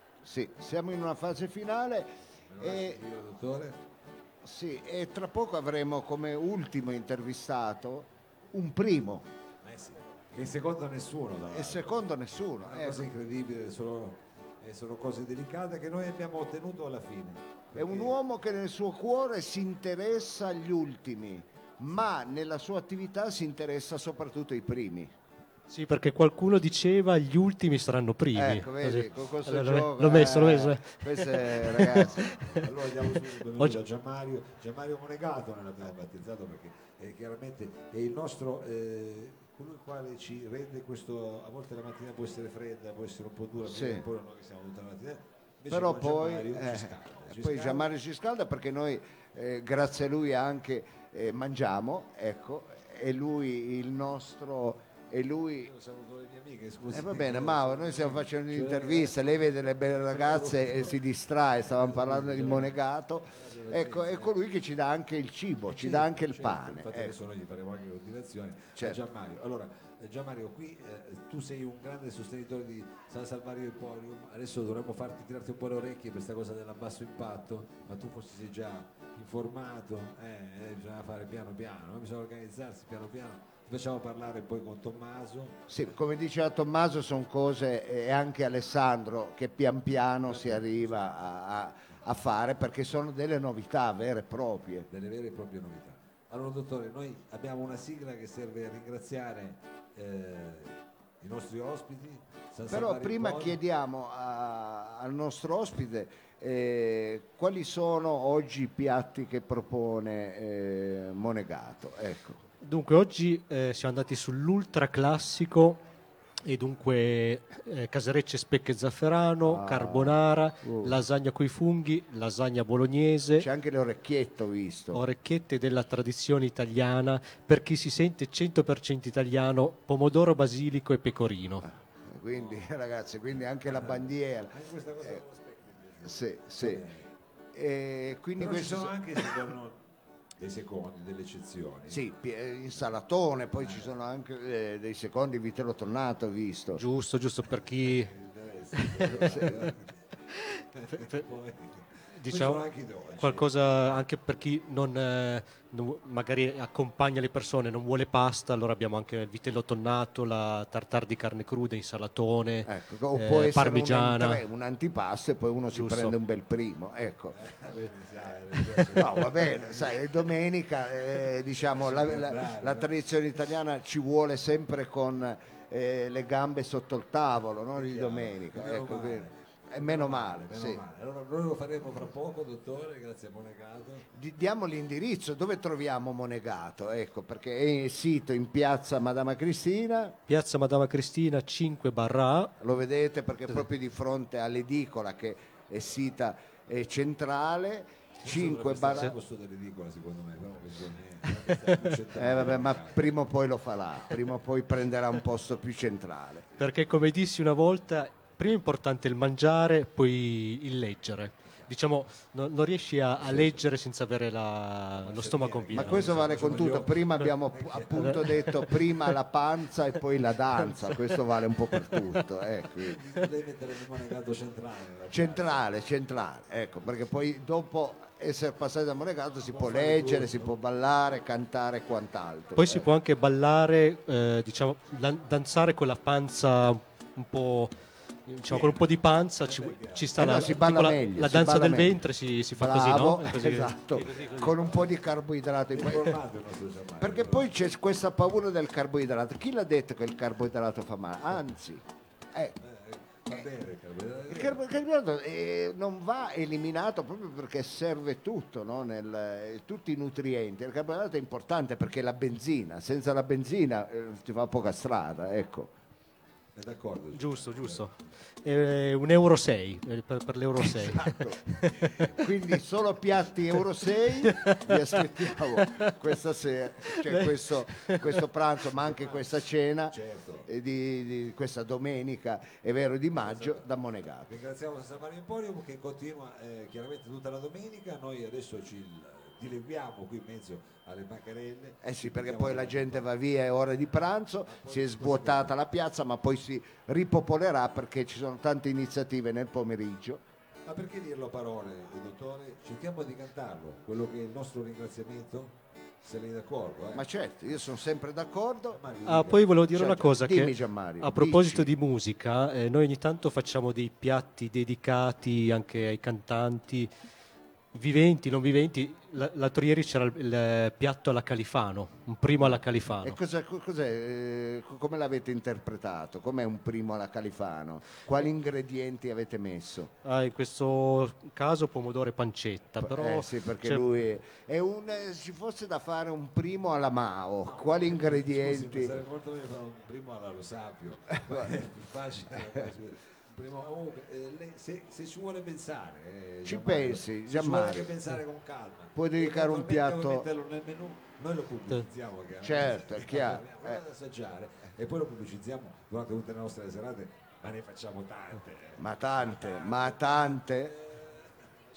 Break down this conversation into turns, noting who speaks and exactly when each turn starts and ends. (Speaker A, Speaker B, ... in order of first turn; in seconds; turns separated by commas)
Speaker A: 0.2-3.0, Speaker B: 2.5-3.8, Speaker A: 4.4-9.3, Speaker B: 9.6-12.0, Speaker A: 11.5-13.1, Speaker B: 12.6-18.1, Speaker A: 17.7-25.1, Speaker C: 25.7-32.7, Speaker A: 28.3-32.4, Speaker B: 31.9-47.9, Speaker A: 43.6-44.0, Speaker A: 45.7-55.7, Speaker B: 55.6-59.2, Speaker A: 56.9-67.1, Speaker B: 60.1-61.0, Speaker B: 61.8-62.8, Speaker B: 63.3-64.3, Speaker B: 65.7-85.7, Speaker A: 68.8-69.0, Speaker A: 85.7-94.9, Speaker B: 90.2-91.2, Speaker B: 94.9-103.6, Speaker A: 102.7-112.4, Speaker C: 112.6-115.8, Speaker C: 116.4-123.5, Speaker A: 119.4-121.0, Speaker A: 123.4-125.0, Speaker C: 124.9-131.6, Speaker A: 131.7-135.2, Speaker B: 132.3-132.6, Speaker B: 133.7-137.1, Speaker A: 136.0-136.9, Speaker A: 137.5-139.4, Speaker B: 138.3-139.8, Speaker B: 140.4-142.1, Speaker A: 141.9-146.8, Speaker B: 143.6-143.9, Speaker C: 146.7-148.1, Speaker B: 147.6-149.9, Speaker C: 148.8-149.5, Speaker A: 149.2-149.6, Speaker C: 150.3-151.0, Speaker B: 150.7-153.6, Speaker C: 152.2-164.4, Speaker A: 162.7-167.3, Speaker C: 165.7-166.1, Speaker B: 167.3-170.0, Speaker A: 168.7-180.8, Speaker B: 171.5-172.9, Speaker B: 177.7-184.1, Speaker A: 184.1-190.2, Speaker C: 190.3-192.5, Speaker A: 192.6-199.1, Speaker B: 198.2-203.2, Speaker A: 202.1-206.5, Speaker C: 206.6-216.1, Speaker B: 213.2-213.7, Speaker B: 215.0-218.4, Speaker A: 215.7-223.0, Speaker C: 218.0-219.1, Speaker C: 220.7-221.2, Speaker C: 221.7-222.1, Speaker B: 222.9-225.8, Speaker A: 225.1-232.9, Speaker B: 229.4-230.5, Speaker C: 232.6-237.7, Speaker C: 238.3-244.2, Speaker B: 238.5-240.9, Speaker A: 240.2-242.0, Speaker A: 242.5-246.2, Speaker B: 243.9-244.9, Speaker B: 245.7-247.5, Speaker A: 247.0-252.6, Speaker B: 252.6-254.6, Speaker A: 254.3-265.7, Speaker B: 266.5-267.9, Speaker C: 267.1-272.3, Speaker A: 270.6-284.3, Speaker C: 274.2-275.9, Speaker C: 276.9-278.2, Speaker B: 278.8-279.2, Speaker B: 279.9-280.5, Speaker B: 283.2-283.7, Speaker B: 284.2-293.1, Speaker A: 291.8-300.2, Speaker B: 294.4-295.5, Speaker B: 300.6-307.1, Speaker A: 306.9-308.8, Speaker B: 308.7-309.5, Speaker C: 309.1-316.9, Speaker A: 309.7-311.7, Speaker C: 317.7-323.2, Speaker A: 322.4-329.9, Speaker C: 330.0-333.9, Speaker A: 332.8-338.9, Speaker B: 337.5-361.4, Speaker A: 346.4-348.0, Speaker A: 348.9-350.3, Speaker A: 352.4-353.8, Speaker A: 358.8-360.8